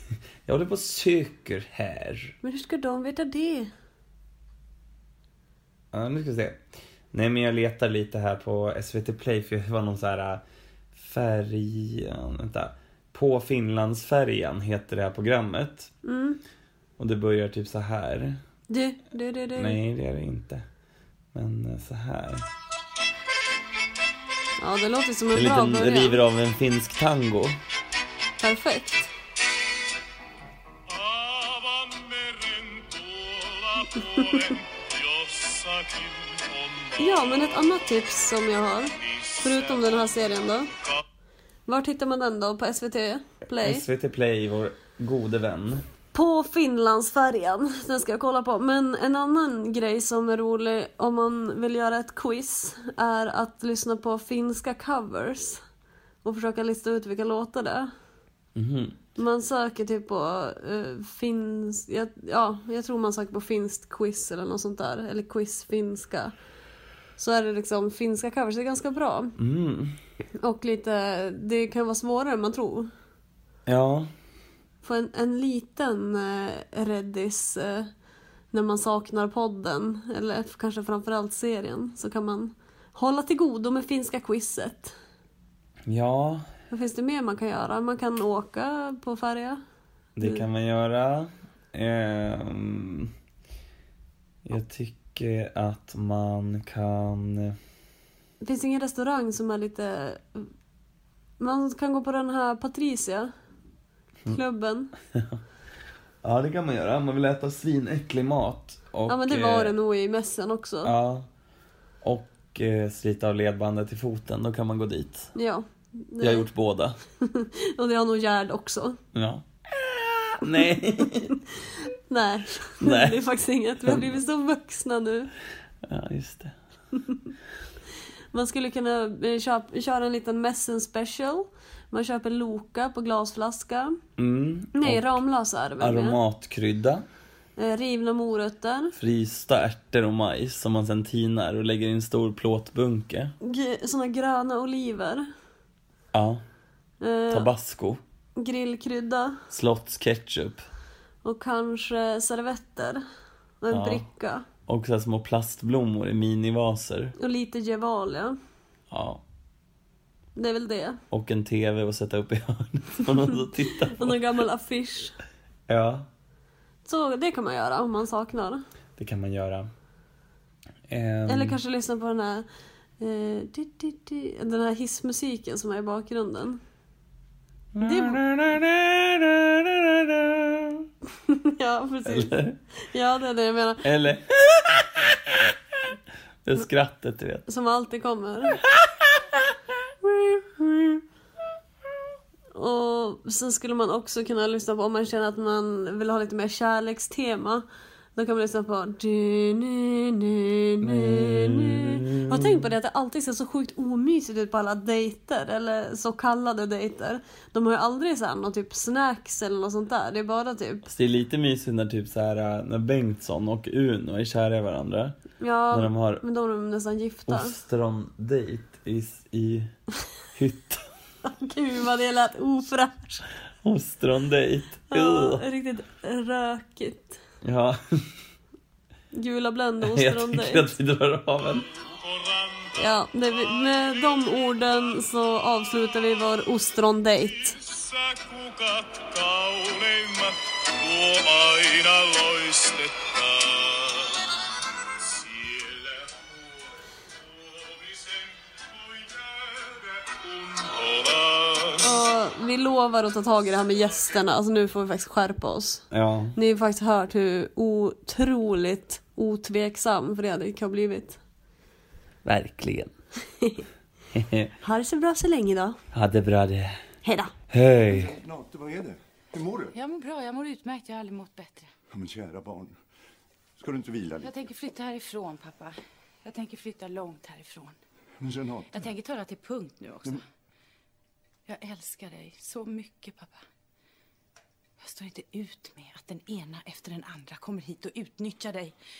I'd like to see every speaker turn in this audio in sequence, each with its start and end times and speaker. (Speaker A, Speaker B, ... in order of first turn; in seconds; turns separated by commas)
Speaker A: 0.5-2.4, Speaker B: 2.4-3.7, Speaker A: 5.9-6.6, Speaker A: 7.1-10.4, Speaker A: 10.9-15.9, Speaker B: 16.0-16.4, Speaker A: 17.0-18.4, Speaker B: 18.7-19.8, Speaker A: 19.6-20.6, Speaker A: 21.3-22.5, Speaker B: 24.6-26.2, Speaker A: 25.3-27.6, Speaker B: 28.4-29.1, Speaker C: 30.9-36.9, Speaker B: 33.9-34.6, Speaker B: 37.0-40.7, Speaker B: 41.7-43.9, Speaker A: 43.6-45.8, Speaker B: 46.1-55.6, Speaker B: 56.2-57.9, Speaker A: 58.5-59.0, Speaker B: 59.2-66.3, Speaker B: 67.2-69.3, Speaker A: 69.4-70.0, Speaker B: 70.4-72.9, Speaker A: 73.7-74.1, Speaker B: 74.8-77.9, Speaker B: 78.5-84.9, Speaker A: 85.9-86.5, Speaker B: 86.7-89.6, Speaker A: 90.2-93.1, Speaker B: 90.2-90.5, Speaker A: 94.5-97.5, Speaker B: 98.4-100.5, Speaker B: 101.4-103.3, Speaker B: 104.3-104.9, Speaker A: 106.2-109.7, Speaker B: 109.1-110.9, Speaker A: 110.8-111.3, Speaker A: 112.0-115.3, Speaker B: 115.3-116.5, Speaker A: 116.2-117.0, Speaker B: 117.2-119.0, Speaker A: 119.2-121.4, Speaker B: 122.1-125.3, Speaker A: 122.8-123.2, Speaker A: 123.8-124.2, Speaker A: 125.9-126.6, Speaker B: 128.3-133.9, Speaker A: 134.2-135.2, Speaker B: 134.8-136.2, Speaker A: 135.8-137.0, Speaker B: 137.6-138.9, Speaker A: 139.0-143.3, Speaker B: 143.4-145.2, Speaker A: 146.1-146.4, Speaker B: 147.0-147.5, Speaker A: 147.3-148.0, Speaker B: 148.4-149.4, Speaker A: 149.5-150.7, Speaker B: 151.2-153.0, Speaker B: 153.6-154.5, Speaker A: 153.7-154.1, Speaker A: 154.7-157.2, Speaker B: 157.2-158.3, Speaker A: 158.9-159.2, Speaker B: 160.4-161.0, Speaker A: 161.1-164.2, Speaker B: 163.7-165.2, Speaker A: 165.7-166.1, Speaker B: 166.8-168.6, Speaker A: 169.0-169.7, Speaker A: 170.9-171.6, Speaker B: 171.3-172.5, Speaker B: 173.0-176.6, Speaker A: 177.8-180.9, Speaker B: 177.8-178.2, Speaker B: 181.3-182.3, Speaker A: 182.1-182.6, Speaker B: 182.9-183.9, Speaker A: 183.8-185.5, Speaker A: 186.4-187.5, Speaker B: 187.5-188.6, Speaker A: 188.7-189.4, Speaker A: 190.0-191.0, Speaker B: 192.6-197.6, Speaker B: 198.2-210.9, Speaker A: 200.8-202.7, Speaker A: 210.9-215.2, Speaker B: 215.4-217.6, Speaker A: 215.7-216.2, Speaker A: 217.3-219.7, Speaker A: 220.3-220.9, Speaker B: 221.2-223.3, Speaker A: 223.6-225.4, Speaker B: 224.9-227.2, Speaker A: 227.4-227.8, Speaker B: 229.1-230.8, Speaker A: 229.8-231.7, Speaker C: 232.1-232.7, Speaker B: 232.7-237.7, Speaker C: 237.7-244.4, Speaker C: 245.0-246.3, Speaker C: 247.6-251.8, Speaker B: 251.7-255.8, Speaker A: 255.9-256.4, Speaker B: 256.4-261.2, Speaker A: 262.2-262.9, Speaker A: 264.1-264.5, Speaker B: 264.6-265.8, Speaker A: 265.9-266.8, Speaker B: 267.0-267.3, Speaker A: 267.5-268.2, Speaker D: 267.9-269.8, Speaker E: 269.7-271.7, Speaker D: 271.9-272.8, Speaker D: 273.6-274.4, Speaker E: 274.2-277.8, Speaker D: 278.2-278.9, Speaker E: 278.7-280.2, Speaker E: 281.5-283.4, Speaker E: 284.8-288.8